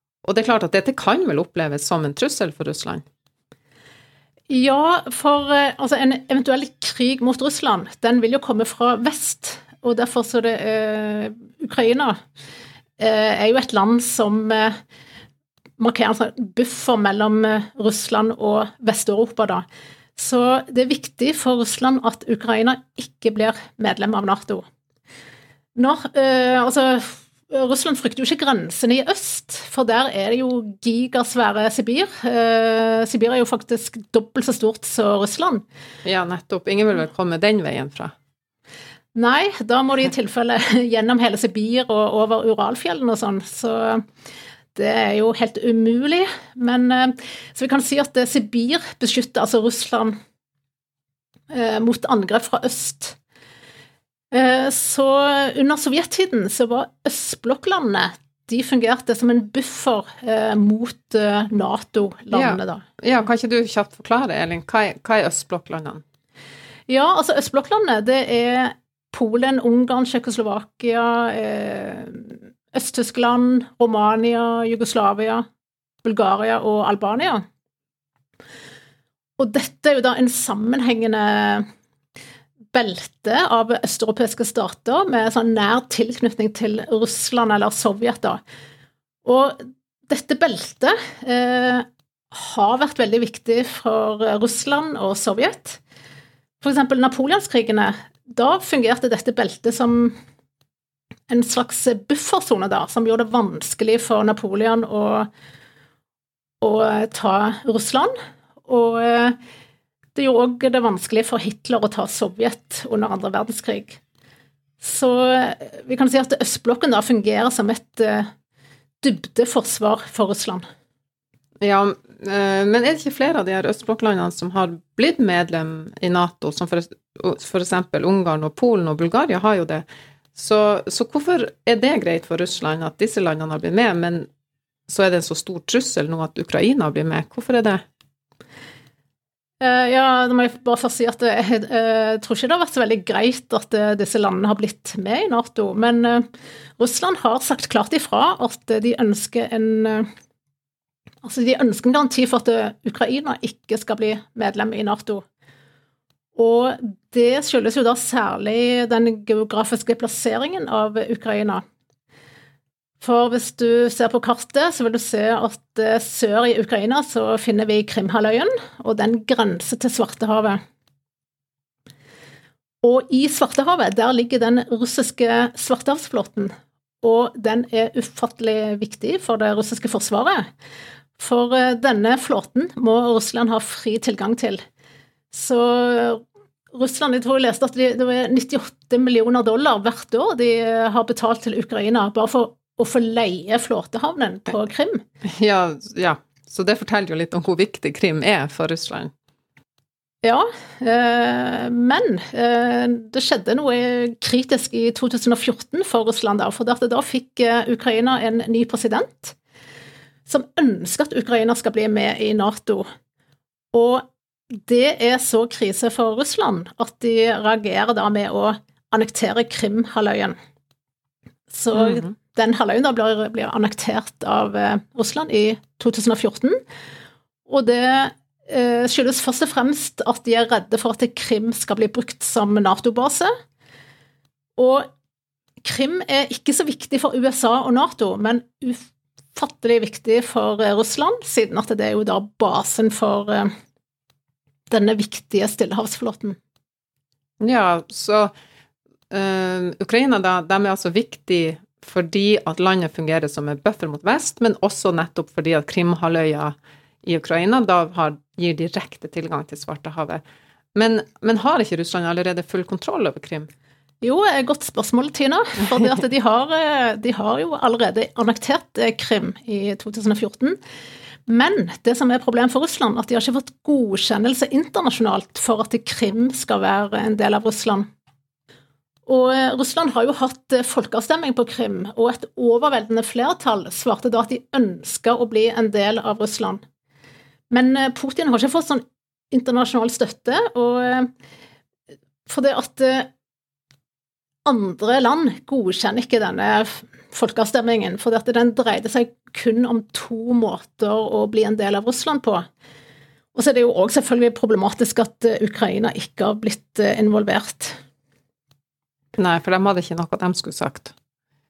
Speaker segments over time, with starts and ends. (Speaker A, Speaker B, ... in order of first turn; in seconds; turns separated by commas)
Speaker A: 0.2-3.0, Speaker B: 4.5-12.2, Speaker B: 13.0-14.8, Speaker B: 15.8-19.6, Speaker B: 20.2-24.6, Speaker B: 25.8-35.6, Speaker A: 36.0-38.1, Speaker B: 39.1-44.1, Speaker B: 44.8-50.2, Speaker B: 51.5-53.2, Speaker B: 54.3-62.8, Speaker A: 62.3-66.0, Speaker B: 66.9-75.5, Speaker B: 76.0-77.4, Speaker B: 79.4-81.7, Speaker B: 82.7-88.4, Speaker B: 89.2-95.8, Speaker B: 96.6-100.1, Speaker B: 101.3-105.3, Speaker B: 106.6-108.1, Speaker B: 108.7-109.4, Speaker B: 110.2-114.0, Speaker B: 114.8-118.3, Speaker B: 119.0-120.6, Speaker A: 121.6-134.3, Speaker A: 134.9-137.8, Speaker B: 139.6-146.3, Speaker B: 146.8-150.1, Speaker B: 151.2-155.2, Speaker B: 156.4-161.6, Speaker B: 163.0-170.6, Speaker B: 172.8-180.5, Speaker B: 181.2-184.6, Speaker B: 185.3-195.0, Speaker A: 195.2-199.1, Speaker B: 200.2-209.4, Speaker B: 210.3-212.9, Speaker B: 213.7-220.4, Speaker B: 221.5-226.6, Speaker A: 221.7-222.1, Speaker B: 227.5-233.3, Speaker B: 234.6-234.9, Speaker B: 235.6-243.5, Speaker B: 244.7-246.4, Speaker A: 247.4-248.3, Speaker A: 249.1-260.2, Speaker A: 260.8-263.5, Speaker B: 264.0-270.6, Speaker B: 271.3-277.9, Speaker B: 279.1-286.6, Speaker B: 287.5-291.1, Speaker B: 292.3-293.1, Speaker B: 294.4-302.4, Speaker B: 303.4-307.8, Speaker A: 309.2-310.9